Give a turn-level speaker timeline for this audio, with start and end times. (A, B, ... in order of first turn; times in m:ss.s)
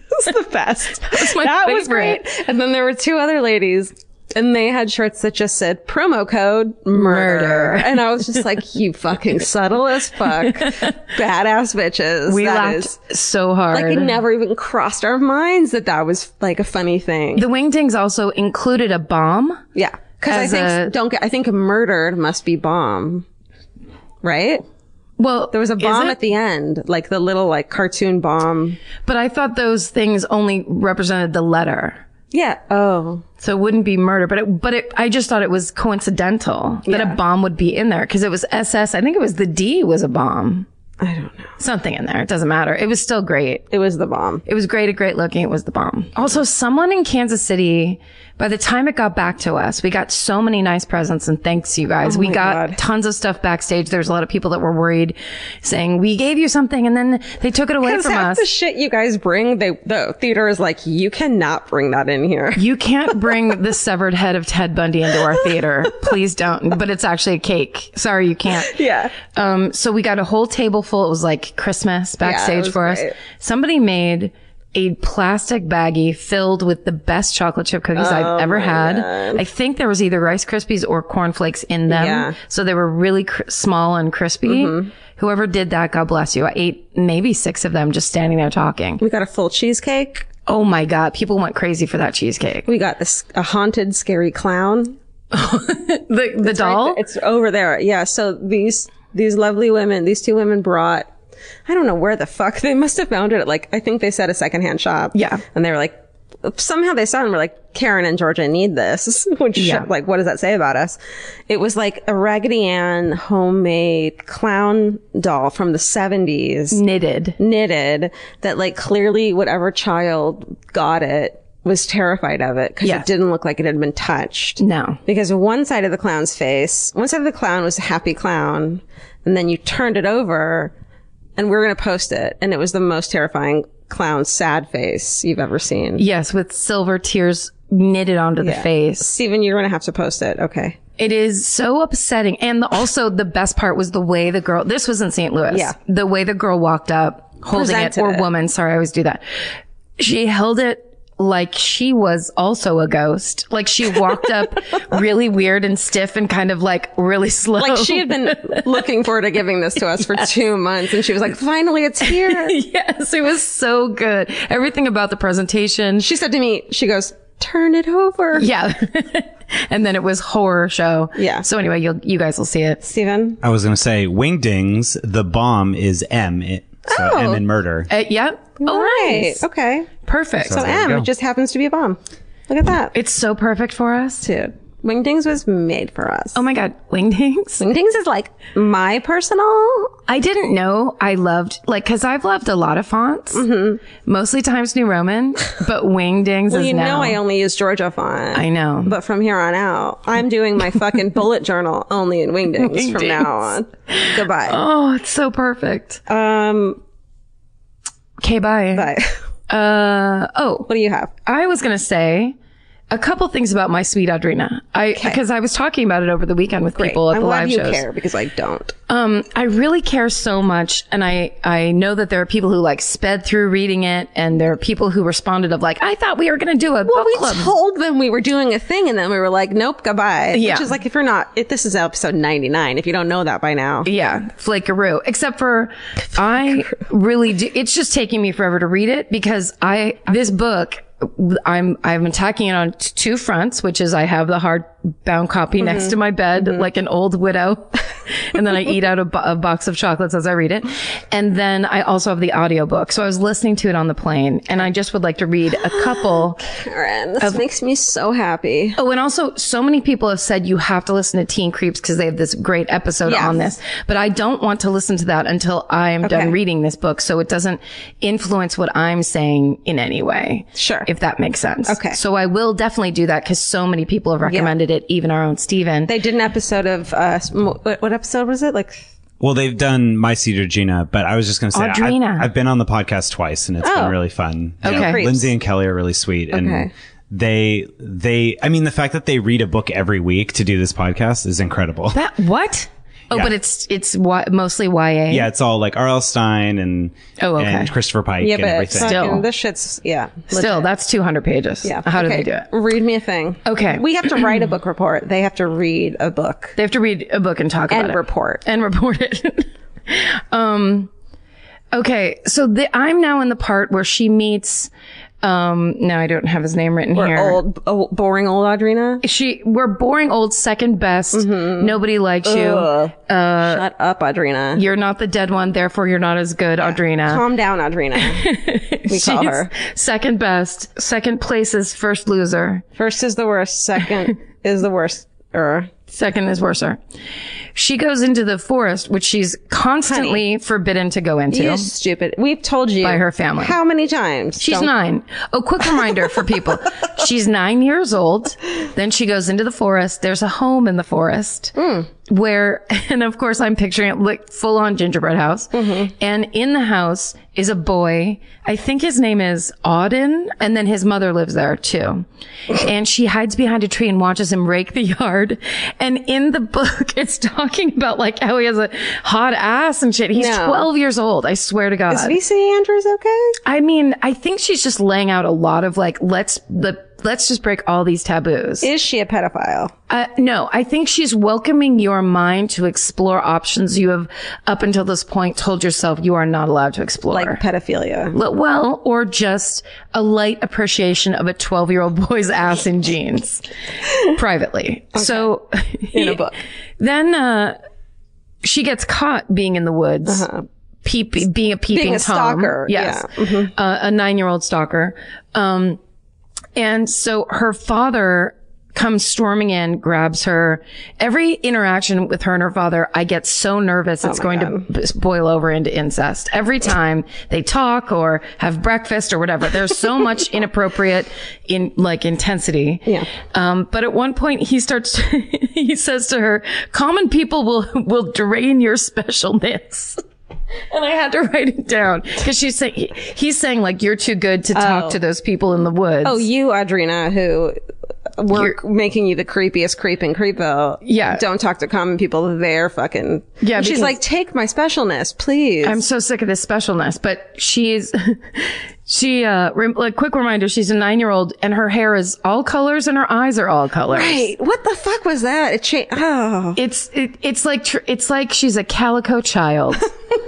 0:00.1-0:12.9 A
0:01.0-0:02.2 B
0:06.9-0:08.0 B
0:12.3-0:14.1 B
0:13.7-0:17.4 A
0:17.4-0:19.6 B
0:19.7-0:23.2 A
0:20.3-0:20.9 B
0:24.2-0:24.6 A
0:25.2-0:26.2 B
0:25.5-0:28.8 A
0:29.0-0:32.0 B
0:32.3-0:33.2 A
0:33.4-0:40.6 B
0:36.9-0:37.2 A
0:41.0-0:41.5 A
0:41.6-0:43.7 B
0:43.7-0:44.4 A
0:44.4-0:58.4 B
0:52.0-0:52.8 A
0:57.8-1:02.6 A
1:02.6-1:29.0 B
1:08.6-1:09.1 A
1:12.2-1:13.1 A
1:18.0-1:19.4 A
1:21.9-1:22.3 A
1:24.4-1:24.9 A
1:29.0-1:30.3 A
1:30.4-1:32.7 B
1:32.7-1:35.0 A
1:35.3-1:37.0 B
1:36.4-1:41.1 A
1:41.6-1:51.0 A
1:45.1-1:45.4 B
1:49.6-1:49.9 B
1:51.5-1:56.8 A
1:56.7-1:57.4 B
1:57.4-2:10.7 A
2:02.8-2:03.1 B
2:04.6-2:05.0 B
2:11.4-2:16.0 A
2:16.0-2:19.1 B
2:18.4-2:20.8 A
2:21.0-2:29.2 B
2:27.5-2:28.2 A
2:30.0-2:38.6 B
2:37.6-2:42.6 A
2:42.0-2:46.0 B
2:46.0-2:48.4 A
2:48.4-2:52.8 B
2:51.2-2:51.4 A
2:52.8-2:53.4 A
2:53.4-2:57.9 C
2:56.9-2:57.4 A
2:57.9-2:59.4 B
2:58.6-2:59.9 A
3:00.0-3:00.7 B
3:00.4-3:02.9 A
3:00.6-3:01.0 C
3:02.9-3:04.2 B
3:04.2-3:06.4 A
3:06.3-3:07.6 B
3:07.6-3:09.9 A
3:10.1-3:13.4 B
3:13.3-3:13.8 A
3:14.0-3:17.2 B
3:16.5-3:24.6 A
3:18.3-3:18.9 B
3:22.6-3:26.0 B
3:26.1-3:26.8 A
3:28.2-3:28.9 B
3:28.7-3:29.2 A
3:29.5-3:30.7 B
3:30.7-3:31.1 A
3:31.2-3:32.3 B
3:32.9-3:37.8 B
3:36.8-3:38.7 A
3:38.9-3:47.5 B
3:46.9-3:53.9 A
3:50.3-3:50.7 B
3:53.8-4:16.4 B
4:05.6-4:05.9 A
4:15.6-4:18.8 A
4:18.8-4:35.9 B
4:23.0-4:23.5 A
4:26.0-4:26.3 A
4:30.6-4:30.9 A
4:31.6-4:32.0 A
4:34.2-4:34.5 A
4:35.9-4:38.9 A
4:39.2-4:52.0 C
4:41.5-4:42.3 B
4:43.6-4:44.0 A
4:44.6-4:45.0 B
4:44.6-4:45.3 A
4:46.3-4:46.7 A
4:51.9-4:55.3 B
4:55.1-4:59.0 C
4:57.2-4:57.7 B
4:58.2-5:00.6 A
4:58.8-4:59.2 B
5:00.3-5:02.5 B
5:01.6-5:06.6 A
5:03.4-5:03.8 B
5:06.6-5:10.9 B
5:07.7-5:08.4 A
5:11.7-5:14.7 B
5:15.2-5:17.4 B
5:16.9-5:19.0 A
5:19.0-5:23.6 B
5:21.1-5:24.6 A
5:24.6-5:27.2 B
5:27.0-5:28.3 A
5:28.0-5:32.6 B
5:28.9-5:29.5 A
5:32.8-5:35.7 A
5:35.9-5:36.8 B
5:37.5-5:41.7 B
5:39.9-5:40.2 A
5:41.3-5:44.7 A
5:42.8-5:43.6 B
5:44.4-5:51.5 B
5:51.6-5:51.9 A
5:52.1-6:12.2 B
5:55.5-5:55.9 A
6:10.1-6:10.7 A
6:11.9-6:13.4 A
6:13.4-6:18.7 B
6:18.6-6:19.7 A
6:19.9-6:27.4 B
6:27.1-6:28.2 A
6:28.1-6:33.4 B
6:34.0-6:36.2 B
6:34.9-6:35.3 A
6:35.9-6:36.4 A
6:36.8-6:37.6 B
6:38.4-6:40.3 B
6:40.0-6:40.4 A
6:40.8-6:45.8 B
6:41.7-6:43.5 A
6:46.5-7:10.0 B
6:54.0-6:54.7 A
7:10.7-7:16.2 B
7:14.5-7:15.0 A
7:16.0-7:17.6 A
7:18.2-7:25.8 A
7:20.8-7:21.2 B
7:23.4-7:24.0 B
7:25.6-7:34.3 B
7:33.9-7:36.6 A
7:36.6-7:39.9 B